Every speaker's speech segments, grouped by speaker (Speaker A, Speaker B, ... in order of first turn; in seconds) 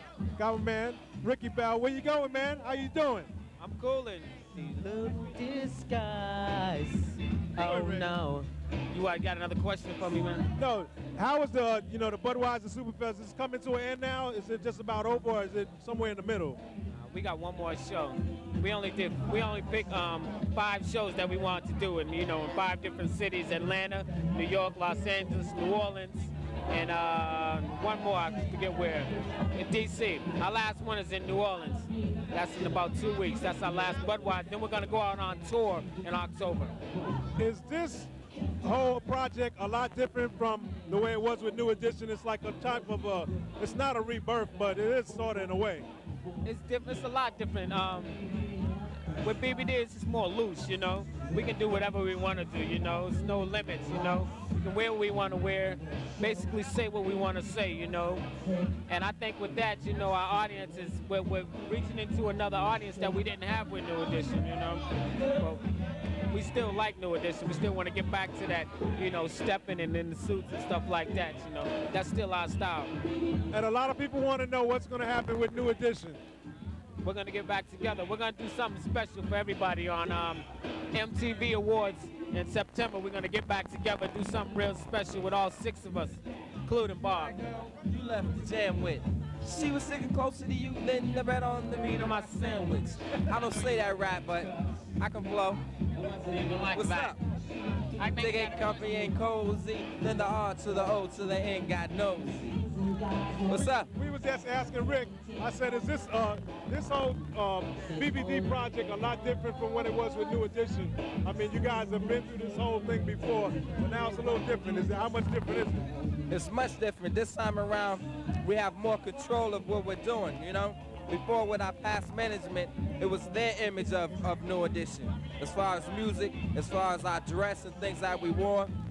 Speaker A: 0.3-3.3, 7.6-8.1, 10.6-16.6, 37.4-38.1, 38.6-45.9, 73.5-76.2, 103.9-115.8
Speaker B: 3.6-10.5, 16.9-36.7, 46.4-48.2, 49.2-58.3, 58.9-65.6, 66.3-72.9, 77.0-87.4, 91.9-93.0, 96.0-97.2, 98.0-99.1
Speaker C: 87.6-95.6, 96.7-97.2, 98.2-102.6, 103.4-103.9, 116.3-128.7